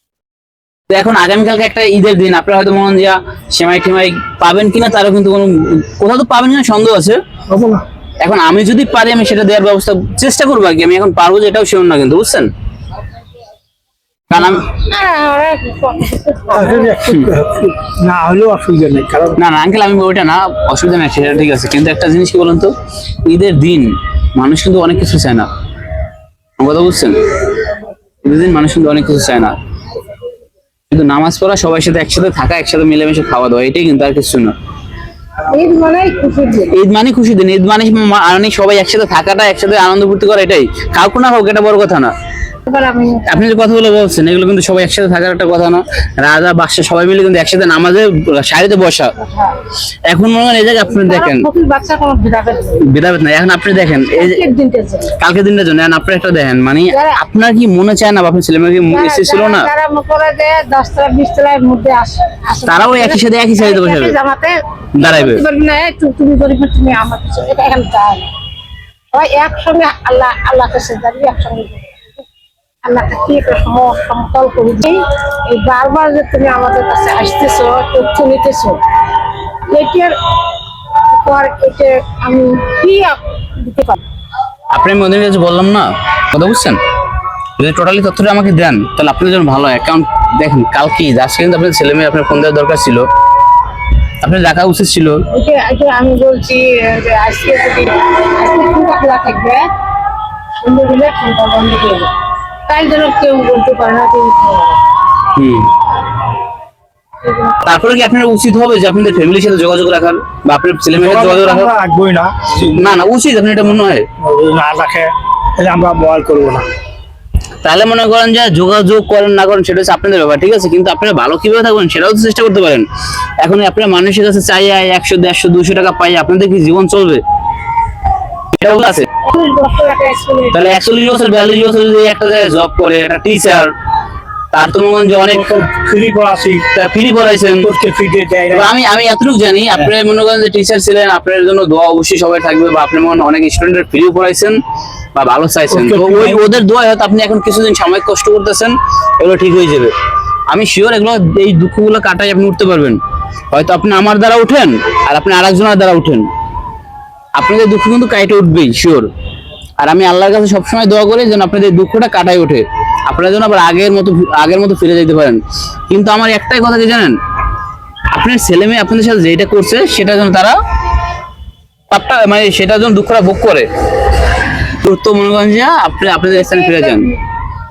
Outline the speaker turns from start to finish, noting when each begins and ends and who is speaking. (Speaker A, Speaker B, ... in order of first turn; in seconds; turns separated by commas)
Speaker A: 0.9-7.2, Speaker B: 7.5-7.8, Speaker A: 8.2-12.5, Speaker A: 14.3-14.7, Speaker C: 14.7-17.1, Speaker B: 16.5-19.4, Speaker A: 19.4-22.7, Speaker A: 23.2-25.5, Speaker A: 26.6-27.2, Speaker A: 28.2-29.5, Speaker A: 30.9-34.5, Speaker C: 35.5-36.7, Speaker A: 36.7-42.1, Speaker C: 42.6-43.5, Speaker A: 43.2-49.2, Speaker C: 49.2-49.5, Speaker A: 50.0-51.5, Speaker C: 50.9-52.9, Speaker A: 52.8-54.4, Speaker C: 54.1-55.1, Speaker A: 55.2-59.7, Speaker C: 56.9-57.2, Speaker C: 58.9-68.3, Speaker A: 62.6-64.1, Speaker A: 64.9-65.4, Speaker C: 69.1-72.2, Speaker C: 72.8-78.8, Speaker C: 79.7-80.2, Speaker C: 81.1-84.0, Speaker A: 84.7-86.8, Speaker A: 87.6-93.0, Speaker A: 94.2-95.2, Speaker C: 95.3-99.7, Speaker C: 100.6-102.1, Speaker C: 102.7-104.8, Speaker A: 105.3-105.7, Speaker C: 107.2-107.5, Speaker A: 107.6-111.7, Speaker B: 111.0-112.8, Speaker A: 112.6-114.0, Speaker B: 114.2-116.7, Speaker A: 117.6-122.8, Speaker A: 123.4-127.2, Speaker A: 128.5-129.1, Speaker C: 129.2-130.5, Speaker A: 130.5-133.7, Speaker A: 134.5-135.4, Speaker B: 135.3-136.7, Speaker A: 136.7-137.7, Speaker B: 137.6-138.7, Speaker A: 138.5-144.6, Speaker A: 145.1-149.9, Speaker B: 145.7-146.4, Speaker A: 150.5-153.0, Speaker A: 153.5-156.3, Speaker A: 157.3-159.1, Speaker A: 159.8-167.2, Speaker A: 168.1-170.6, Speaker A: 171.9-173.7, Speaker A: 174.8-177.1, Speaker C: 176.4-177.1